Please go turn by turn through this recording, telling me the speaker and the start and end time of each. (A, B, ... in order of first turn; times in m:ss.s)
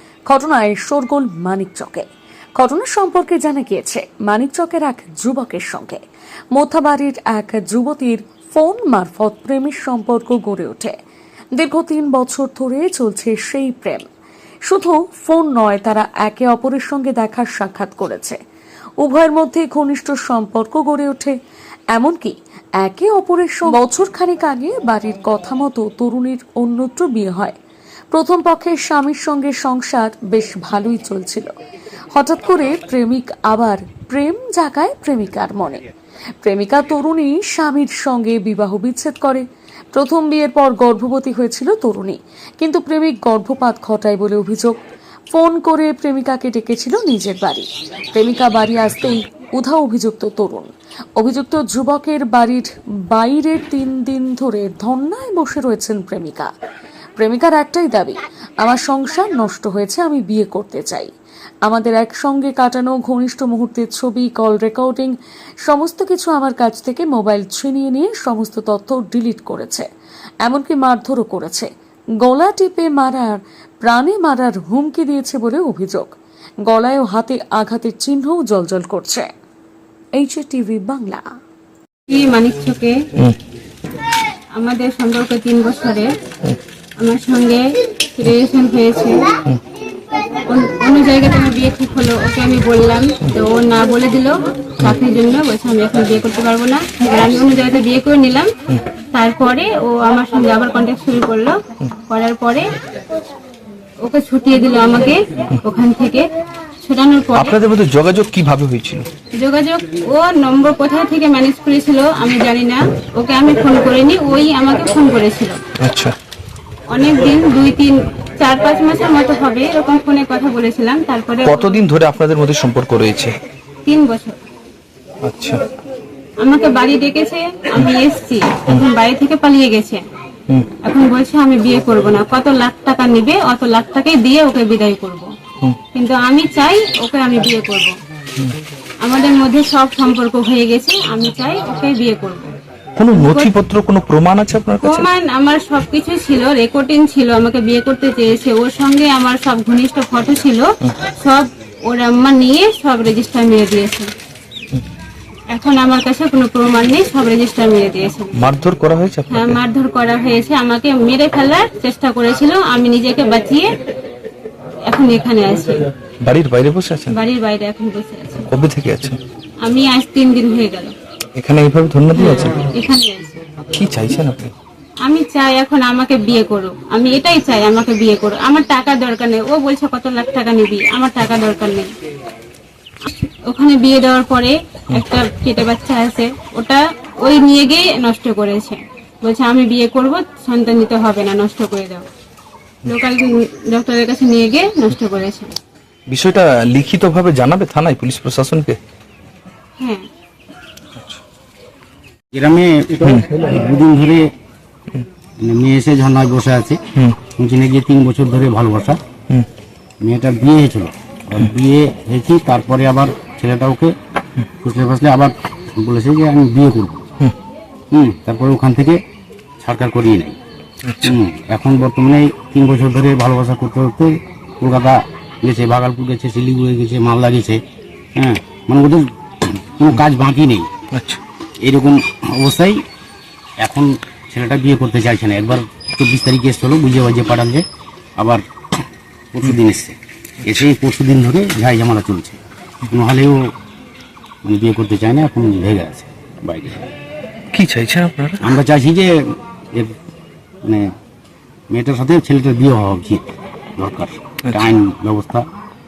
0:00.3-0:06.0 A
0:06.5-0:11.0 A
0:11.5-0:14.1 A
0:14.6-0:18.4 A
0:19.0-0:21.3 A
0:21.9-0:27.6 A
0:28.1-0:31.5 A
0:32.1-0:35.8 A
0:36.4-0:44.8 A
0:45.3-0:56.5 A
0:57.2-1:01.1 A
1:01.6-1:09.9 A
1:10.4-1:11.7 A
1:12.2-1:16.1 A
1:16.6-1:19.3 A
1:20.2-1:21.3 A
1:22.1-1:23.0 B
1:24.5-1:26.1 B
1:27.0-1:29.4 B
1:30.5-1:38.5 B
1:39.1-1:42.7 B
1:44.0-1:46.3 B
1:46.8-1:47.6 B
1:47.4-1:49.1 C
1:49.4-1:55.6 B
1:55.8-1:56.2 C
1:56.9-2:01.8 B
2:01.4-2:03.4 C
2:03.9-2:04.4 B
2:05.2-2:05.6 C
2:06.4-2:10.0 B
2:10.8-2:15.3 B
2:15.9-2:18.0 B
2:19.0-2:22.5 B
2:23.0-2:25.1 C
2:23.1-2:23.5 B
2:24.8-2:34.1 B
2:35.5-2:38.4 B
2:38.4-2:39.6 C
2:39.3-2:43.7 B
2:44.9-2:45.9 B
2:46.2-2:47.2 C
2:47.1-2:48.5 B
2:48.5-2:49.2 C
2:49.6-2:50.9 B
2:51.4-2:52.6 C
2:52.2-2:53.4 B
2:53.7-2:54.5 C
2:55.0-3:01.9 B
3:03.0-3:12.1 B
3:12.9-3:15.6 B
3:16.1-3:18.8 C
3:19.8-3:20.0 B
3:21.0-3:21.2 C
3:22.3-3:24.3 D
3:25.4-3:29.0 D
3:26.9-3:27.2 C
3:30.0-3:33.9 D
3:34.6-3:37.0 D
3:37.9-3:39.0 D
3:39.6-3:40.4 D
3:40.8-3:41.2 C
3:41.0-3:47.6 D
3:48.2-3:50.7 D
3:50.9-3:51.2 C
3:51.6-3:52.8 D
3:53.6-3:57.6 D
3:58.2-4:03.5 D
4:04.4-4:06.9 D
4:07.5-4:08.6 C
4:08.4-4:09.9 D
4:10.6-4:10.9 D
4:11.7-4:15.4 D
4:14.4-4:14.7 C